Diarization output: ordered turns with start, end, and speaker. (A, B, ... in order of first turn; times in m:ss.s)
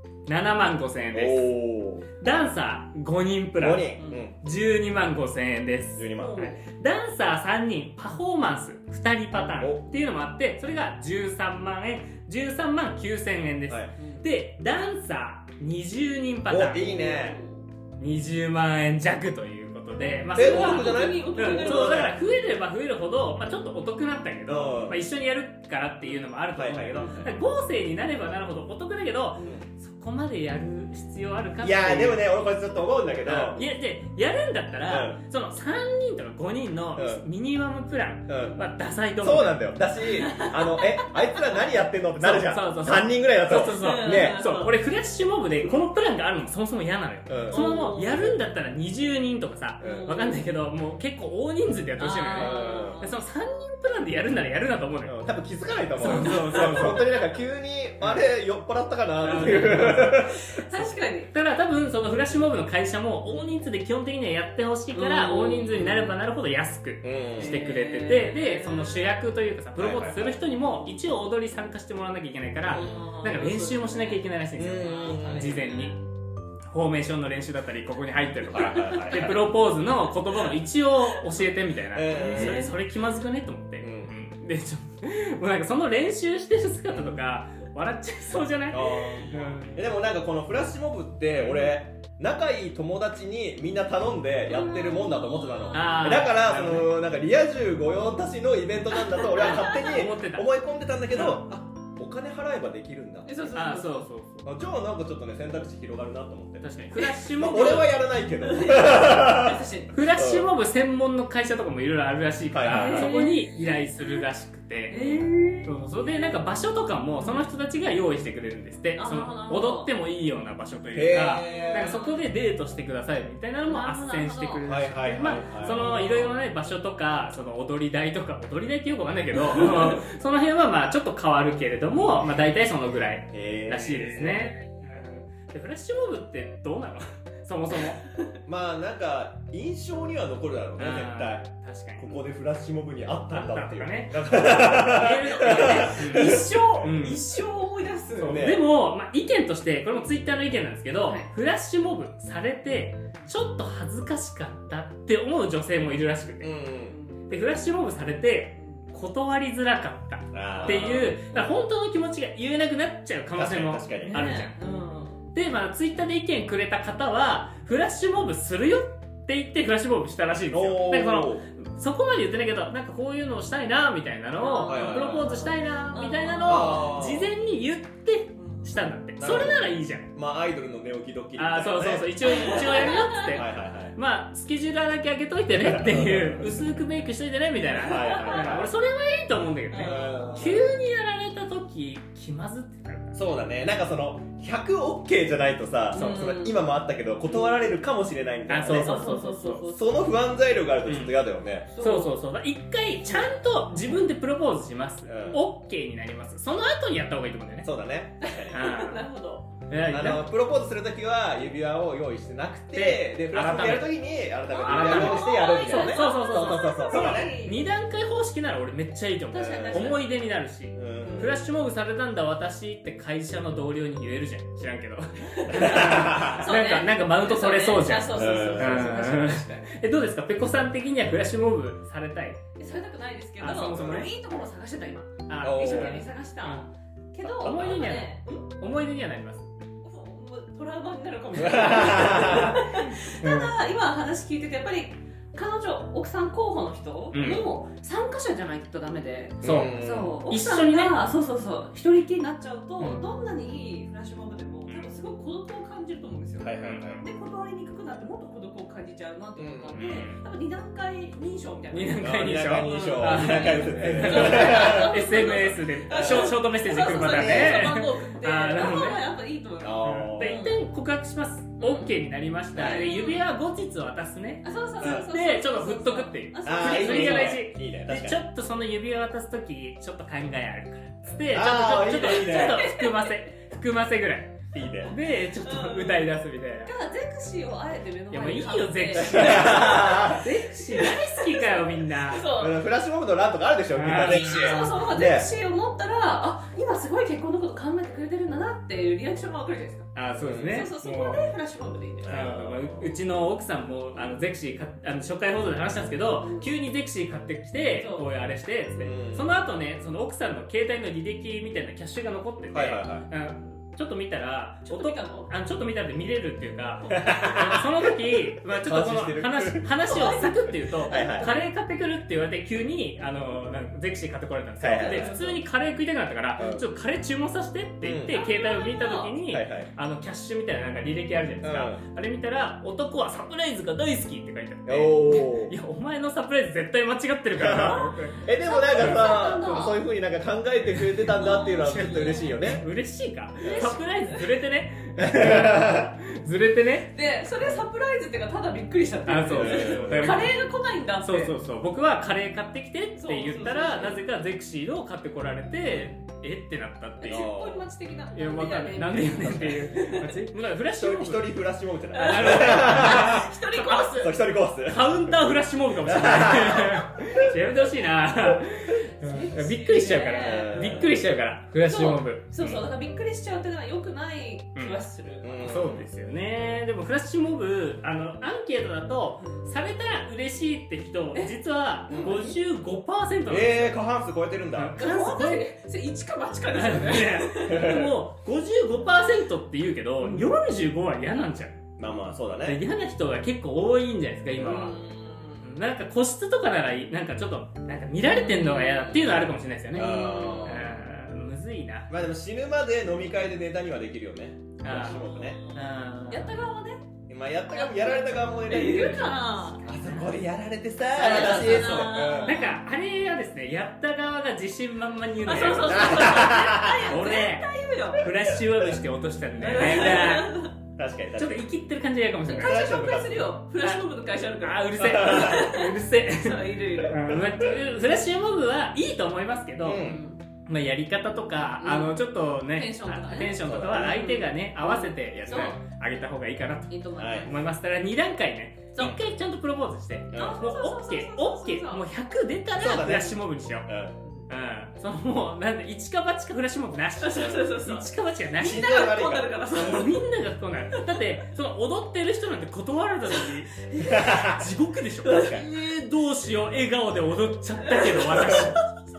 0:00.3-0:01.5 A
0:01.1-0:02.1 B
0:02.2-0:16.9 A
0:03.6-0:04.4 B
0:04.0-0:04.3 C
0:06.0-0:06.5 B
0:06.2-0:06.6 C
0:09.6-0:09.8 B
0:13.7-0:13.9 B
0:14.0-0:14.2 C
0:16.5-0:17.4 B
0:16.8-0:17.6 C
0:18.0-0:32.3 A
0:20.4-0:22.1 C
0:20.4-0:22.2 B
0:24.5-0:25.0 B
0:26.5-0:27.4 B
0:27.0-0:27.3 C
0:29.4-0:29.7 B
0:31.6-0:33.6 B
0:33.2-0:39.6 A
0:34.9-0:35.2 B
0:37.0-0:37.2 B
0:38.3-0:38.6 B
0:39.2-0:44.4 B
0:40.1-0:41.6 C
0:42.2-0:55.1 A
0:43.5-0:44.7 C
0:47.3-0:47.6 B
0:47.5-0:48.4 C
0:49.8-0:50.1 B
0:49.8-0:50.4 C
0:52.0-0:53.2 C
0:52.3-0:53.1 B
0:55.1-1:00.5 B
0:56.0-0:57.2 A
0:56.0-0:57.0 C
0:59.2-1:00.3 A
1:00.5-1:01.3 C
1:01.3-1:16.0 A
1:04.9-1:06.2 C
1:07.0-1:07.6 B
1:07.4-1:09.1 C
1:09.8-1:10.4 B
1:12.7-1:13.0 B
1:12.7-1:14.2 C
1:14.6-1:15.6 B
1:14.8-1:16.0 C
1:16.7-1:29.8 A
1:18.5-1:19.4 B
1:21.9-1:22.7 B
1:22.1-1:22.8 C
1:23.8-1:24.1 B
1:26.9-1:27.2 B
1:28.7-1:43.3 B
1:34.5-1:36.2 C
1:35.7-1:36.9 A
1:39.0-1:39.9 C
1:39.4-1:40.5 A
1:41.1-1:41.4 A
1:43.3-1:44.0 C
1:43.5-1:44.5 A
1:44.4-1:46.7 B
1:46.6-1:47.9 A
1:47.0-1:47.3 C
1:47.3-1:50.5 B
1:48.4-1:49.9 C
1:49.9-2:18.0 A
1:52.5-1:53.1 B
1:52.7-1:54.2 C
1:54.9-1:56.4 C
1:57.2-1:57.5 C
1:59.0-1:59.9 C
2:00.9-2:02.0 B
2:01.4-2:02.2 C
2:03.6-2:04.7 C
2:04.6-2:05.8 B
2:05.3-2:06.4 C
2:12.0-2:12.6 B
2:13.3-2:14.5 B
2:18.5-2:26.6 B
2:20.8-2:22.1 A
2:23.3-2:27.2 A
2:25.3-2:28.4 C
2:28.2-2:36.6 A
2:28.2-2:28.6 B
2:31.0-2:31.3 C
2:36.4-2:37.0 B
2:36.8-2:37.2 C
2:37.3-2:44.6 A
2:40.3-2:41.5 B
2:40.6-2:41.2 C
2:43.4-2:44.2 B
2:44.0-2:45.2 C
2:45.3-3:00.1 A
2:50.5-2:51.5 B
2:54.4-2:56.9 C
2:54.7-2:55.3 B
2:56.4-2:57.3 B
2:58.4-2:58.7 C
2:59.2-3:04.0 B
3:01.4-3:13.2 A
3:02.2-3:03.4 C
3:05.5-3:06.6 B
3:07.8-3:08.7 B
3:07.8-3:08.6 C
3:09.7-3:10.6 C
3:09.8-3:10.7 B
3:13.2-3:19.0 B
3:15.9-3:16.7 C
3:18.5-3:19.7 A
3:18.8-3:20.0 C
3:19.7-3:21.7 B
3:20.9-3:21.2 A
3:21.7-3:22.1 C
3:21.8-3:27.7 A
3:23.0-3:23.3 C
3:25.1-3:25.4 B
3:25.1-3:25.4 C
3:27.6-3:28.6 B
3:28.2-3:29.5 C
3:28.5-3:29.1 A
3:29.7-3:30.3 A
3:29.9-3:37.3 B
3:32.7-3:33.9 A
3:34.5-3:37.6 C
3:34.6-3:52.4 A
3:39.3-3:40.1 C
3:39.5-3:40.0 B
3:40.8-3:41.3 B
3:41.0-3:41.4 C
3:45.4-3:49.7 C
3:45.5-3:46.5 B
3:48.1-3:49.0 B
3:52.6-3:58.5 C
3:53.4-3:54.1 A
3:53.7-3:54.1 B
3:55.3-3:56.7 A
3:55.4-3:56.0 B
3:57.2-3:59.5 A
3:59.8-4:30.6 C
4:01.4-4:02.6 B
4:02.9-4:03.5 A
4:07.1-4:07.5 A
4:09.4-4:10.2 B
4:09.4-4:09.8 A
4:10.3-4:11.0 A
4:12.8-4:13.0 A
4:14.7-4:14.9 A
4:16.4-4:17.0 B
4:16.6-4:17.0 A
4:19.4-4:20.1 B
4:19.8-4:20.2 A
4:21.7-4:29.1 A
4:22.0-4:25.0 B
4:25.9-4:27.6 B
4:29.6-4:30.4 B
4:29.8-4:46.7 A
4:31.6-4:32.0 C
4:32.6-4:32.9 B
4:32.6-4:33.3 C
4:34.4-4:37.4 C
4:34.8-4:35.1 B
4:36.4-4:38.2 B
4:41.2-4:42.7 B
4:42.0-4:43.1 C
4:44.5-4:44.9 B
4:45.2-4:46.1 C
4:46.6-4:52.6 C
4:48.1-4:52.3 A
4:49.0-4:50.3 B
4:52.4-4:55.3 B
4:53.7-4:54.6 A
4:54.0-4:59.9 C
5:00.0-5:01.2 A
5:00.2-5:00.6 B
5:00.5-5:02.1 C
5:02.0-5:03.0 B
5:02.1-5:39.1 A
5:06.2-5:06.5 C
5:07.7-5:08.1 C
5:08.8-5:09.3 B
5:12.5-5:13.1 B
5:14.7-5:15.3 C
5:16.9-5:17.7 B
5:18.4-5:19.8 B
5:19.8-5:21.4 C
5:20.8-5:21.4 B
5:24.6-5:25.1 B
5:24.8-5:25.4 C
5:26.4-5:26.7 B
5:27.8-5:28.2 B
5:28.1-5:29.2 C
5:29.3-5:29.7 B
5:31.4-5:31.8 B
5:34.7-5:35.6 B
5:37.4-5:42.6 B
5:37.7-5:39.8 C
5:40.7-5:47.6 A
5:41.1-5:42.4 C
5:43.4-5:44.3 C
5:45.0-5:45.9 B
5:46.9-5:51.4 C
5:49.1-5:50.4 A
5:49.3-5:50.4 B
5:51.0-5:57.3 A
5:53.0-5:54.0 C
5:57.0-6:00.2 C
5:57.1-5:57.6 B
5:58.1-6:01.4 A
6:00.8-6:05.2 B
6:01.9-6:04.1 C
6:02.0-6:04.0 A
6:04.6-6:12.6 A
6:05.8-6:07.4 B
6:09.0-6:10.8 C
6:10.2-6:11.0 B
6:11.6-6:15.6 C
6:15.2-6:15.9 B
6:15.4-6:23.8 A
6:21.9-6:22.4 C
6:21.9-6:22.2 B
6:23.3-6:24.8 B
6:24.6-6:25.5 A
6:24.8-6:27.8 C
6:26.5-6:31.6 A
6:27.5-6:28.0 B
6:30.0-6:30.3 C
6:31.8-6:32.6 B
6:32.4-6:34.8 A
6:34.4-6:34.8 B
6:34.4-6:35.5 C
6:35.4-6:41.9 A
6:38.0-6:38.9 C
6:38.9-6:40.7 B
6:39.8-6:40.7 C
6:41.9-6:45.4 B
6:44.6-6:45.0 A
6:44.7-6:46.9 C
6:45.5-6:46.4 A
6:47.1-6:52.5 B
6:47.5-6:50.0 C
6:48.7-6:50.1 A
6:50.9-6:52.6 C
6:51.0-7:00.5 A
6:55.2-6:58.1 C
6:55.7-6:56.9 B
6:59.4-7:00.5 C
6:59.7-7:00.1 B
7:00.8-7:01.4 B
7:01.2-7:02.6 A
7:02.2-7:07.0 C
7:02.3-7:03.4 B
7:04.4-7:09.8 A
7:04.8-7:05.4 B
7:07.0-7:07.6 B
7:09.6-7:10.0 B
7:09.7-7:10.2 C
7:10.5-7:23.7 A
7:11.6-7:15.6 C
7:13.4-7:14.0 B
7:16.7-7:17.4 C
7:17.0-7:17.3 B
7:20.1-7:20.4 B
7:20.1-7:21.8 C
7:22.5-7:24.0 B
7:24.3-7:28.7 A
7:27.0-7:30.0 C
7:27.2-7:27.4 B
7:28.4-7:29.4 B
7:29.5-7:38.6 A
7:33.2-7:34.3 C
7:33.8-7:34.4 B
7:35.0-7:35.4 C
7:37.7-7:38.6 C